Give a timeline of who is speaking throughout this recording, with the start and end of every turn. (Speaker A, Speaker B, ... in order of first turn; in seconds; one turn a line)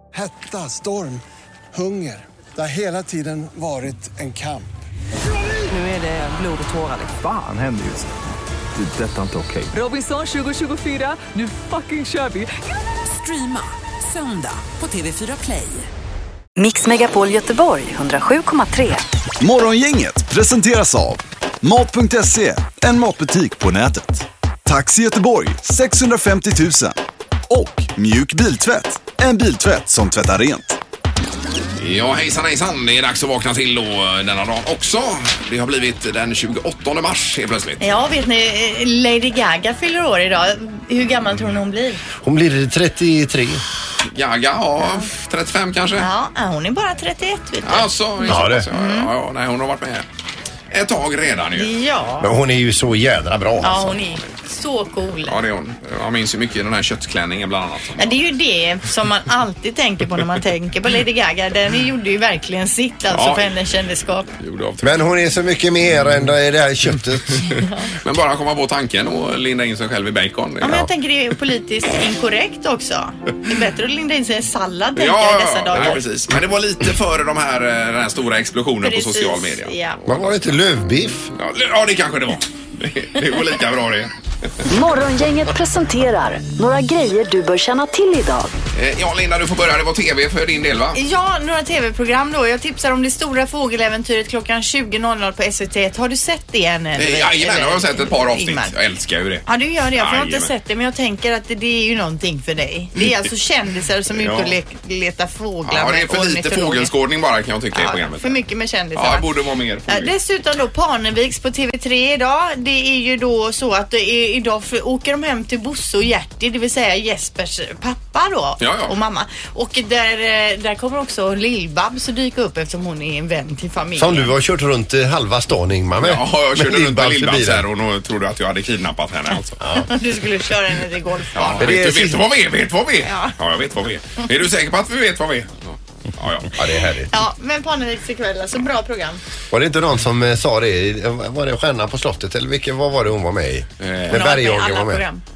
Speaker A: 0.1-1.2
Speaker A: 1.7-4.7
Speaker B: 5.7-7.1
Speaker C: 7.0-8.1
Speaker C: 8.8-9.7
Speaker B: 9.7-12.5
Speaker B: 13.1-15.9
Speaker D: 16.6-19.0
Speaker E: 19.4-27.0
Speaker E: 27.5-30.8
Speaker F: 31.8-37.8
Speaker G: 37.8-42.0
Speaker H: 42.2-43.6
Speaker F: 44.0-46.1
Speaker G: 46.0-49.1
Speaker F: 47.6-50.1
Speaker H: 48.2-48.7
Speaker F: 50.7-51.7
Speaker G: 51.5-52.3
Speaker H: 52.2-54.0
Speaker G: 53.6-55.4
Speaker F: 55.3-58.2
Speaker G: 58.0-64.3
Speaker F: 63.1-63.5
Speaker F: 64.4-65.0
Speaker H: 64.8-67.5
Speaker G: 67.6-67.9
Speaker F: 68.0-70.9
Speaker G: 70.6-76.0
Speaker F: 75.0-80.5
Speaker G: 78.8-80.0
Speaker H: 80.1-81.3
Speaker F: 81.3-84.1
Speaker D: 84.7-88.5
Speaker F: 88.7-91.0
Speaker G: 90.9-98.7
Speaker F: 97.0-100.5
Speaker G: 99.5-106.9
Speaker F: 104.2-104.6
Speaker F: 105.6-108.4
Speaker G: 107.7-109.3
Speaker F: 109.0-110.1
Speaker G: 109.9-124.3
Speaker F: 118.6-119.0
Speaker H: 124.0-127.7
Speaker F: 126.0-129.6
Speaker H: 129.6-129.9
Speaker G: 129.9-131.8
Speaker F: 131.4-136.6
Speaker H: 131.6-132.3
Speaker G: 133.0-133.3
Speaker H: 136.6-137.1
Speaker G: 137.1-139.2
Speaker H: 139.5-145.1
Speaker F: 143.8-144.2
Speaker G: 144.1-145.2